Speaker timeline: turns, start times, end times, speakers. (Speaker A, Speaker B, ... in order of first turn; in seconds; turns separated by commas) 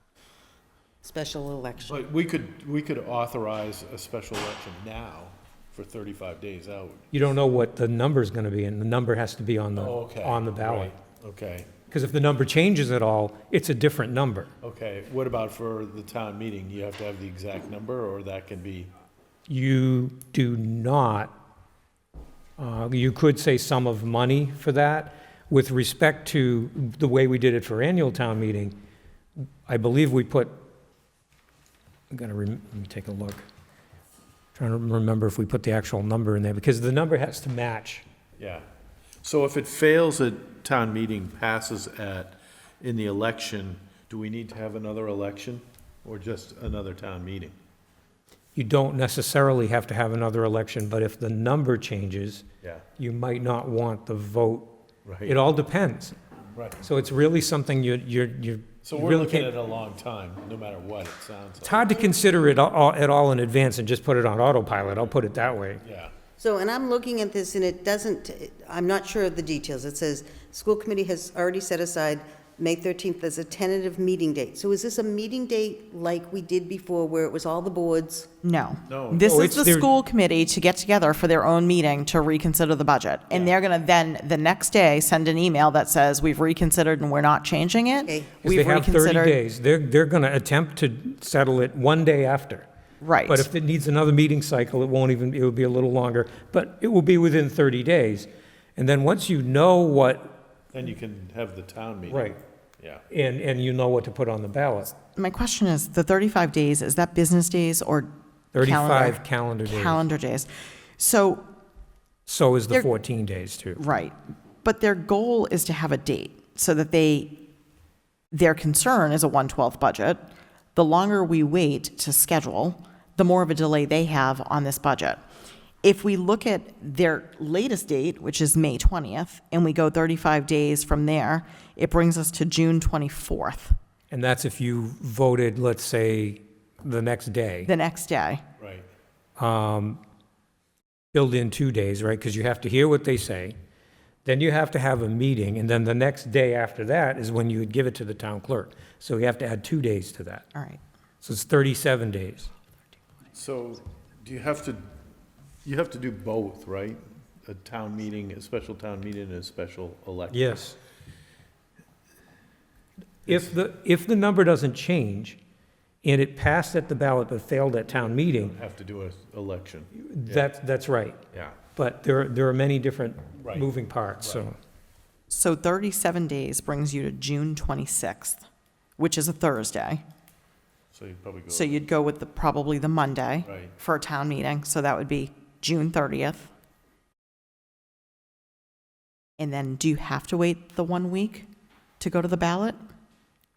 Speaker A: 1.0-2.0, Speaker B: 1.9-7.1, Speaker C: 7.1-10.9, Speaker B: 9.8-11.7, Speaker C: 11.9-14.5, Speaker B: 14.6-18.9, Speaker C: 19.5-21.3, Speaker C: 22.6-28.8, Speaker C: 29.7-30.6, Speaker C: 32.1-33.4, Speaker C: 34.5-38.0, Speaker B: 38.4-38.6, Speaker B: 39.2-47.5, Speaker C: 48.5-52.4, Speaker C: 53.0-54.7, Speaker B: 55.0-55.4, Speaker C: 55.2-56.1, Speaker B: 56.5-56.8, Speaker C: 56.8-59.5, Speaker B: 58.8-61.9, Speaker C: 61.6-65.8, Speaker B: 65.8-66.1, Speaker A: 66.4-78.3, Speaker D: 78.4-89.4, Speaker B: 78.9-79.3, Speaker C: 79.2-79.9, Speaker A: 88.1-88.3, Speaker C: 88.4-92.7, Speaker D: 93.0-93.5, Speaker C: 93.3-100.4, Speaker B: 100.7-103.0, Speaker C: 102.1-102.4, Speaker C: 103.1-104.9, Speaker D: 105.2-111.4, Speaker C: 108.5-110.0, Speaker C: 112.3-113.8, Speaker D: 113.8-117.4, Speaker D: 118.3-125.2, Speaker D: 125.8-133.8, Speaker C: 134.1-137.7, Speaker D: 137.7-138.4, Speaker B: 138.6-138.9, Speaker C: 139.4-140.0, Speaker C: 141.1-143.6, Speaker C: 144.2-150.5, Speaker D: 150.5-150.8, Speaker C: 151.2-152.5, Speaker B: 153.3-154.9, Speaker B: 155.6-160.6, Speaker C: 160.3-160.8, Speaker C: 163.2-165.4, Speaker C: 166.0-168.6, Speaker B: 167.9-170.5, Speaker C: 169.9-171.2, Speaker B: 171.3-171.6, Speaker C: 171.7-174.6, Speaker B: 173.4-174.4, Speaker D: 175.3-178.4, Speaker D: 179.0-180.0, Speaker B: 180.9-181.8, Speaker D: 181.5-186.5, Speaker B: 183.4-183.7, Speaker D: 189.4-191.5, Speaker D: 192.0-192.8